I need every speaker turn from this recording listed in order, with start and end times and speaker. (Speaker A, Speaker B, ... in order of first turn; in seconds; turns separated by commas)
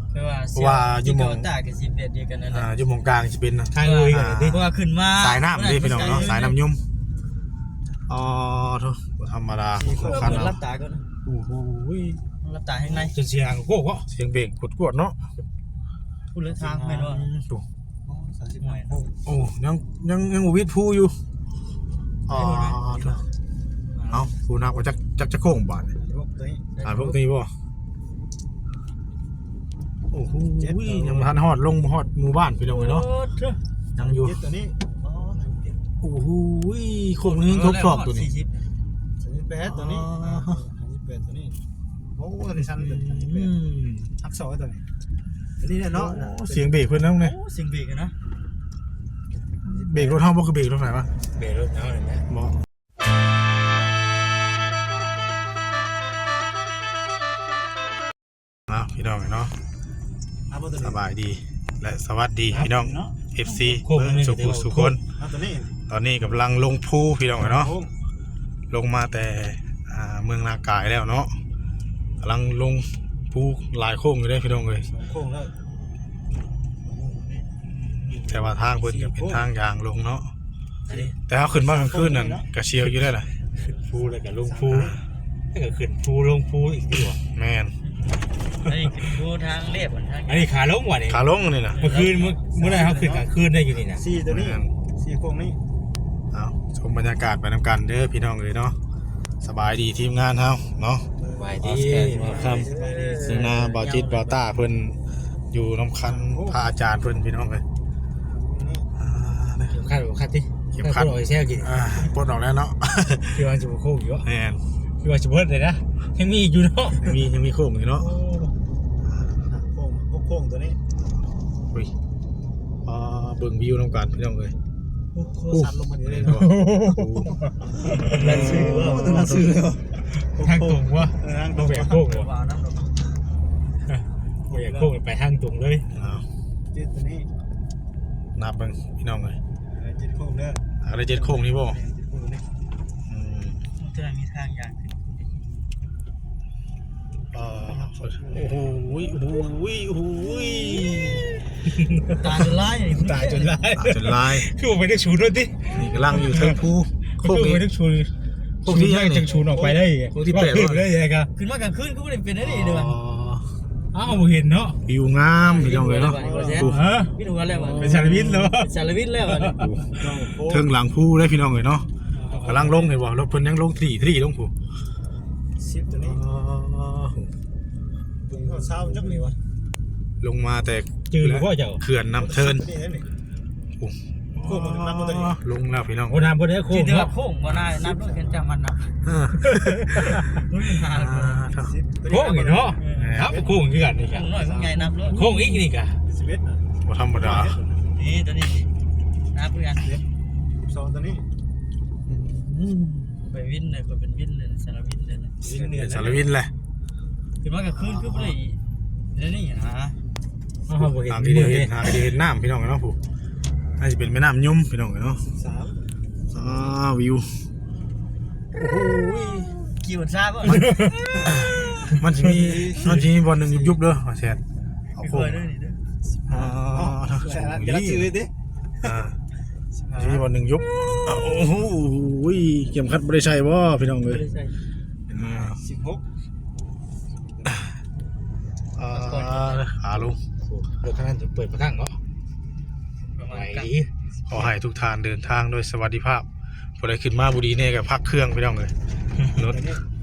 Speaker A: 0.1-2.7, Speaker B: 0.6-1.5, Speaker B: 2.5-6.8, Speaker C: 3.7-4.6, Speaker A: 3.8-6.6, Speaker B: 8.1-10.6, Speaker D: 9.8-10.4, Speaker A: 10.0-11.1, Speaker B: 11.2-12.2, Speaker A: 12.4-13.2, Speaker C: 13.1-14.1, Speaker B: 14.1-15.2, Speaker A: 16.3-17.3, Speaker D: 16.6-17.0, Speaker B: 17.0-17.6, Speaker D: 18.1-19.1, Speaker A: 18.6-19.0, Speaker B: 19.3-21.2, Speaker B: 22.3-23.2, Speaker A: 22.3-23.2, Speaker A: 23.9-24.3, Speaker B: 24.1-25.9, Speaker D: 26.0-26.7, Speaker A: 26.8-27.2, Speaker B: 26.8-27.5, Speaker B: 30.1-33.1, Speaker D: 30.6-31.4, Speaker A: 32.7-33.6, Speaker B: 34.0-34.4, Speaker D: 34.0-35.8, Speaker B: 36.0-38.3, Speaker A: 37.2-38.6, Speaker D: 39.2-41.6, Speaker B: 39.7-40.6, Speaker D: 42.1-43.6, Speaker B: 42.8-44.1, Speaker D: 44.2-44.9, Speaker D: 45.6-46.7, Speaker B: 45.9-47.4, Speaker A: 47.2-48.1, Speaker B: 49.6-51.1, Speaker D: 49.7-50.2, Speaker C: 51.4-52.2, Speaker B: 52.3-52.6, Speaker B: 58.7-59.5, Speaker D: 60.5-61.0, Speaker B: 60.8-65.0, Speaker D: 62.8-63.2, Speaker C: 63.5-65.0, Speaker D: 65.1-65.8, Speaker B: 65.9-67.8, Speaker D: 67.4-67.9, Speaker B: 68.7-71.4, Speaker B: 72.2-74.9, Speaker D: 74.9-75.5, Speaker D: 76.8-77.5, Speaker B: 78.2-80.3, Speaker D: 78.7-79.5, Speaker D: 80.9-82.5, Speaker B: 81.3-83.3, Speaker C: 83.8-85.0, Speaker D: 84.4-85.0, Speaker C: 85.5-87.2, Speaker B: 87.3-87.7, Speaker A: 88.6-90.5, Speaker C: 90.3-94.0, Speaker B: 91.1-91.9, Speaker A: 91.7-93.2, Speaker D: 94.0-95.6, Speaker B: 94.2-94.7, Speaker B: 96.3-98.8, Speaker B: 99.4-101.1, Speaker D: 101.2-103.5, Speaker C: 101.3-102.7, Speaker B: 101.6-102.7, Speaker A: 102.2-104.4, Speaker B: 103.2-107.6, Speaker D: 106.0-106.6, Speaker D: 108.3-108.9, Speaker B: 109.0-109.8, Speaker C: 109.7-111.8, Speaker B: 110.8-113.5, Speaker C: 113.3-114.2, Speaker B: 114.2-114.6, Speaker C: 115.0-117.1, Speaker B: 117.0-118.2, Speaker B: 119.1-119.3, Speaker D: 119.3-120.8, Speaker B: 122.8-124.5, Speaker D: 125.2-126.5, Speaker B: 125.5-127.4, Speaker C: 126.2-127.5, Speaker D: 127.8-133.0, Speaker C: 128.1-129.0, Speaker B: 128.2-129.5, Speaker C: 130.2-132.3, Speaker C: 133.9-135.9, Speaker D: 134.5-134.9, Speaker B: 135.9-136.3, Speaker D: 136.7-137.3, Speaker B: 138.4-139.4, Speaker D: 139.7-142.5, Speaker B: 140.8-141.8, Speaker B: 143.1-143.6, Speaker A: 143.8-145.3, Speaker B: 147.3-151.3, Speaker D: 147.7-148.5, Speaker C: 151.7-152.4, Speaker A: 152.1-153.6, Speaker C: 152.9-156.7, Speaker B: 153.8-154.5, Speaker B: 155.7-157.7, Speaker C: 157.2-158.1, Speaker B: 158.6-159.3, Speaker C: 158.7-161.3, Speaker D: 159.5-159.8, Speaker B: 160.1-160.9, Speaker A: 161.3-162.9, Speaker B: 162.4-163.5, Speaker C: 163.9-164.8, Speaker B: 164.9-166.9, Speaker A: 165.4-169.7, Speaker D: 166.1-166.7, Speaker C: 166.6-167.1, Speaker B: 167.5-168.6, Speaker C: 167.8-168.7, Speaker B: 169.6-171.9, Speaker D: 169.9-170.7, Speaker D: 172.3-172.6, Speaker B: 172.4-174.5, Speaker D: 175.6-176.2, Speaker B: 176.0-177.3, Speaker D: 178.3-179.4, Speaker B: 180.2-182.7, Speaker C: 181.1-181.8, Speaker D: 182.2-183.1, Speaker B: 183.8-186.2, Speaker D: 184.4-185.4, Speaker C: 186.1-187.1, Speaker A: 186.7-188.9, Speaker D: 187.8-188.4, Speaker B: 189.1-190.1, Speaker C: 189.5-190.2, Speaker A: 190.3-191.4, Speaker B: 190.9-191.8, Speaker D: 191.6-193.6, Speaker C: 192.1-194.5, Speaker A: 192.8-193.3, Speaker B: 193.0-193.4, Speaker A: 194.0-195.3, Speaker C: 195.1-196.0, Speaker B: 195.1-195.6, Speaker D: 196.1-197.9, Speaker B: 196.9-197.6, Speaker A: 197.9-198.7, Speaker A: 199.3-200.0, Speaker D: 199.8-200.0, Speaker D: 200.6-201.3, Speaker B: 202.1-203.1, Speaker A: 203.2-206.2, Speaker B: 205.4-206.5, Speaker D: 205.6-206.0, Speaker A: 207.4-208.6, Speaker B: 207.8-208.4, Speaker A: 209.1-210.0, Speaker C: 210.7-211.9, Speaker B: 210.7-213.0, Speaker B: 213.8-215.2, Speaker D: 215.2-215.8, Speaker B: 216.3-217.4, Speaker B: 218.5-219.6, Speaker A: 219.7-220.9, Speaker B: 221.4-224.4, Speaker D: 222.4-222.9, Speaker B: 225.0-225.5, Speaker A: 225.0-225.8, Speaker D: 226.2-228.3, Speaker B: 226.3-228.1, Speaker B: 228.8-229.2, Speaker D: 229.8-230.3, Speaker B: 230.0-234.2, Speaker A: 234.0-234.6, Speaker B: 235.1-235.6, Speaker D: 235.4-236.0, Speaker B: 238.8-240.2, Speaker A: 238.9-239.7, Speaker C: 240.4-242.0, Speaker A: 243.2-243.7, Speaker C: 243.3-243.9, Speaker B: 244.3-246.3, Speaker B: 246.8-248.8, Speaker B: 249.3-249.6, Speaker D: 249.4-249.8